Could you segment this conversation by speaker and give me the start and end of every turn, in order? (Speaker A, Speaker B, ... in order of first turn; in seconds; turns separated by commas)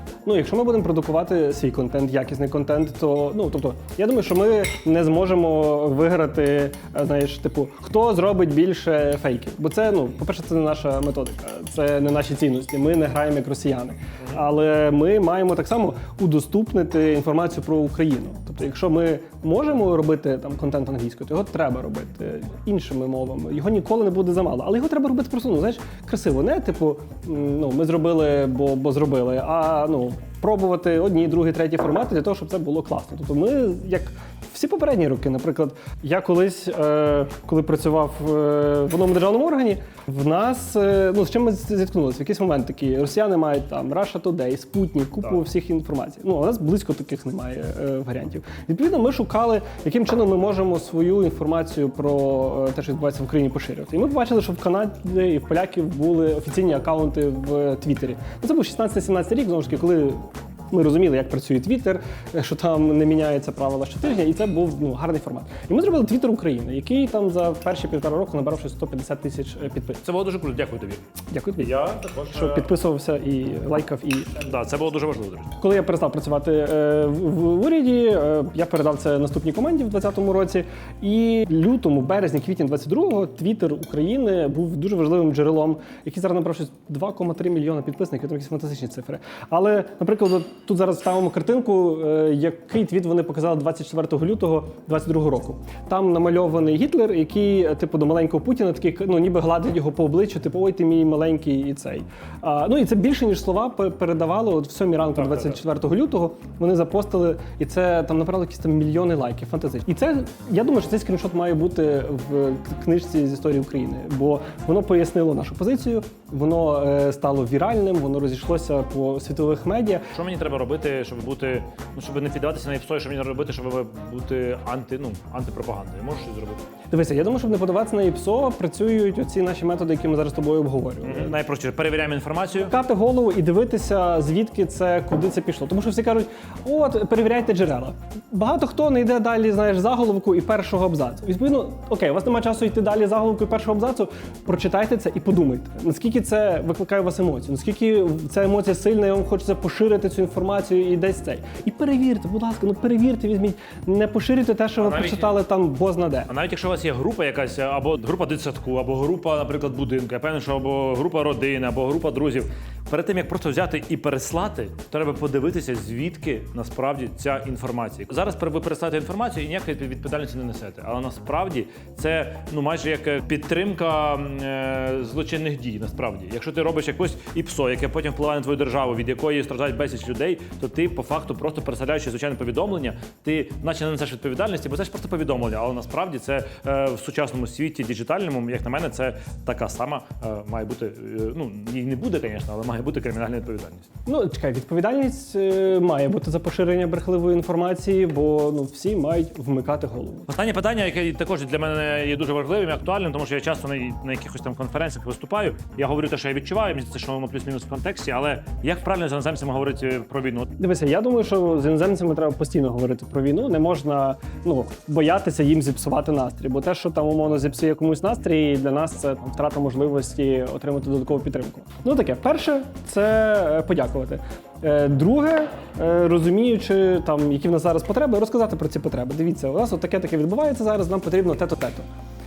Speaker A: 0.2-70.0, Speaker B: 70.0-71.1, Speaker A: 71.3-74.4, Speaker B: 71.6-72.7, Speaker B: 74.4-75.6, Speaker A: 75.6-120.1, Speaker B: 105.2-105.5, Speaker B: 120.1-126.6, Speaker A: 126.9-131.4, Speaker B: 131.0-132.7, Speaker A: 132.6-156.3, Speaker B: 154.8-155.4, Speaker B: 156.3-193.9, Speaker A: 194.1-200.3, Speaker B: 200.3-210.5, Speaker A: 210.6-231.9